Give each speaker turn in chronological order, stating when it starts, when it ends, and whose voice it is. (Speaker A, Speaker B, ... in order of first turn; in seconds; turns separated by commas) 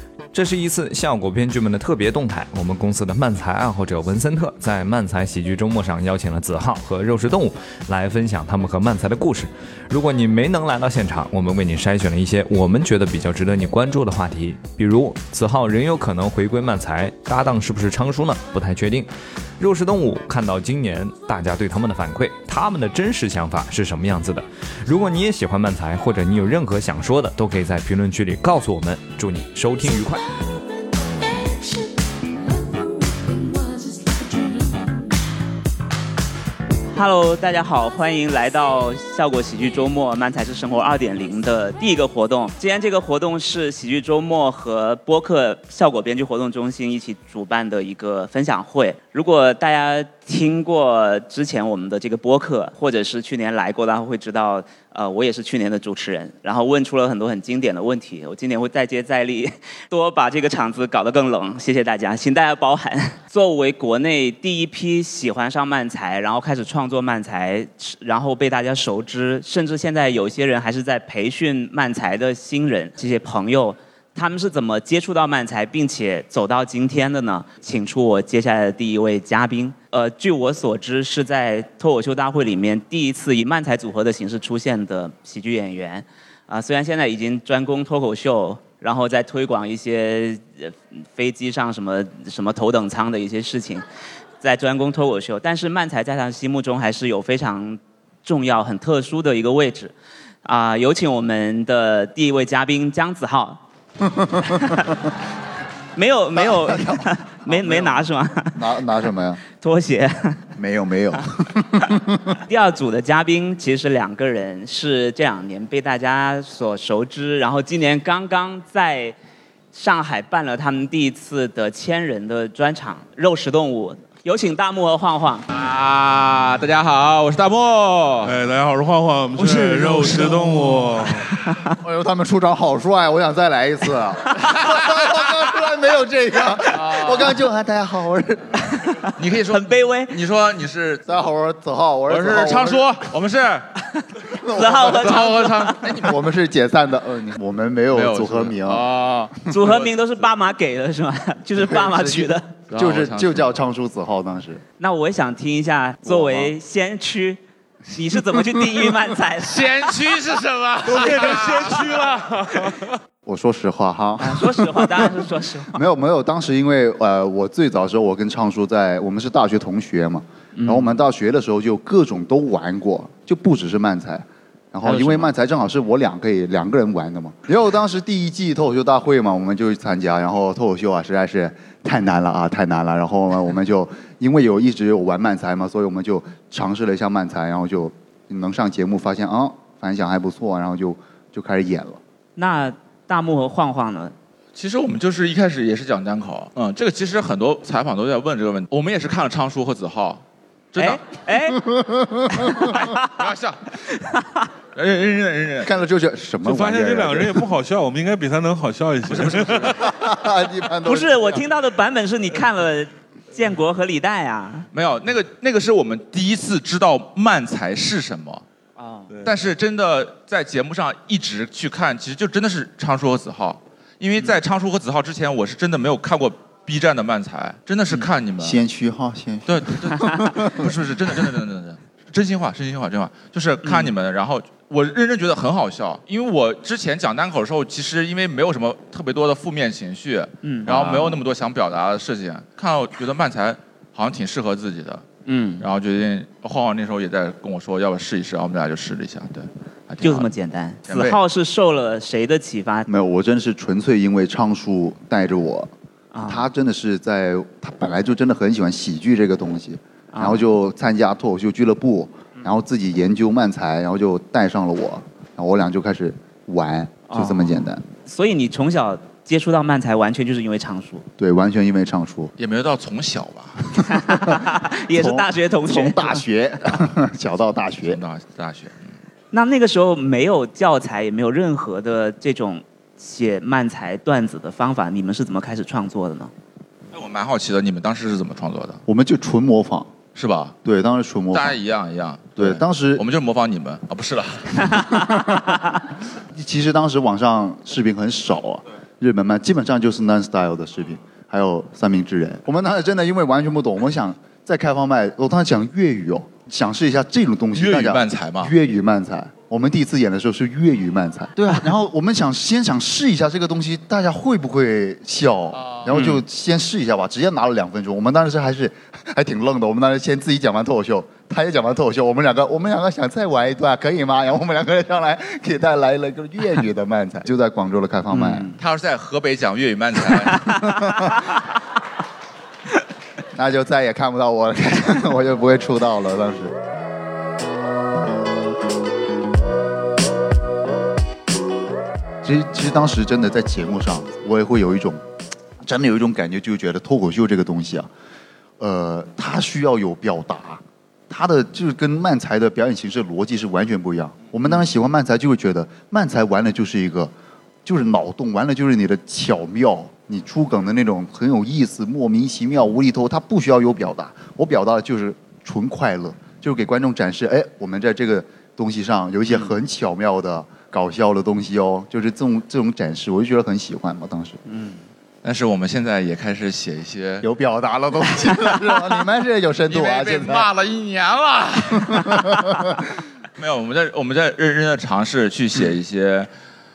Speaker A: 0.3-30.3, Speaker B: 36.9-93.8, Speaker B: 94.4-99.9, Speaker B: 100.4-103.6, Speaker C: 104.0-104.8, Speaker B: 104.5-104.9, Speaker B: 105.9-108.6, Speaker C: 106.4-109.4, Speaker B: 109.5-110.5, Speaker C: 110.5-112.4, Speaker B: 112.5-119.2, Speaker B: 119.7-125.5, Speaker D: 125.5-128.4, Speaker E: 128.2-131.3, Speaker D: 129.4-130.8, Speaker C: 131.7-138.6, Speaker D: 134.4-135.2, Speaker D: 136.7-137.4, Speaker B: 138.8-140.2, Speaker D: 139.2-141.1, Speaker C: 141.1-143.0, Speaker D: 142.1-143.7, Speaker B: 143.9-145.8, Speaker C: 144.3-148.9, Speaker D: 144.9-146.2, Speaker D: 147.9-149.9, Speaker B: 149.5-152.5, Speaker C: 151.6-154.6, Speaker D: 152.7-153.5, Speaker B: 154.8-159.7, Speaker C: 156.0-156.5, Speaker D: 159.4-162.0, Speaker E: 160.8-162.9, Speaker C: 163.2-192.0, Speaker B: 164.2-165.8, Speaker B: 170.6-170.9, Speaker D: 174.9-175.2, Speaker B: 192.3-194.1, Speaker D: 194.6-201.1, Speaker B: 200.8-201.6, Speaker C: 201.5-202.8, Speaker B: 202.3-203.1, Speaker D: 202.7-203.6, Speaker B: 203.9-204.4, Speaker D: 204.7-205.8, Speaker C: 205.6-207.4, Speaker E: 206.4-209.8, Speaker D: 209.1-209.8, Speaker C: 209.7-211.3, Speaker B: 210.8-214.7, Speaker D: 214.7-218.4, Speaker B: 218.8-219.1, Speaker D: 219.2-228.6, Speaker C: 228.4-230.7, Speaker D: 229.4-245.1, Speaker B: 233.6-233.9, Speaker B: 240.4-240.9, Speaker C: 240.7-241.0, Speaker B: 245.2-245.7, Speaker D: 245.6-250.3, Speaker B: 250.0-252.9, Speaker D: 250.8-251.2, Speaker C: 252.9-255.7, Speaker B: 256.1-256.5, Speaker C: 256.2-267.8, Speaker B: 260.1-260.4, Speaker B: 267.1-271.1, Speaker C: 271.2-272.3, Speaker D: 272.4-273.8, Speaker B: 273.9-276.2, Speaker C: 274.9-278.0, Speaker D: 277.9-278.9, Speaker B: 279.3-286.3, Speaker D: 286.9-288.8, Speaker C: 288.9-289.9, Speaker D: 290.1-290.5, Speaker C: 290.6-291.6, Speaker D: 291.3-294.9, Speaker C: 292.4-293.0, Speaker C: 294.7-295.7, Speaker C: 296.3-328.5, Speaker D: 307.5-308.5, Speaker D: 315.5-316.2, Speaker B: 328.1-328.5, Speaker D: 328.6-330.5, Speaker C: 330.3-331.3, Speaker C: 333.3-336.5, Speaker C: 342.2-345.0, Speaker C: 345.6-347.9, Speaker C: 348.6-357.1, Speaker C: 357.6-374.4, Speaker B: 374.5-374.8, Speaker D: 375.2-377.2, Speaker C: 377.2-380.5, Speaker D: 379.7-382.4, Speaker C: 381.8-382.8, Speaker D: 383.4-386.3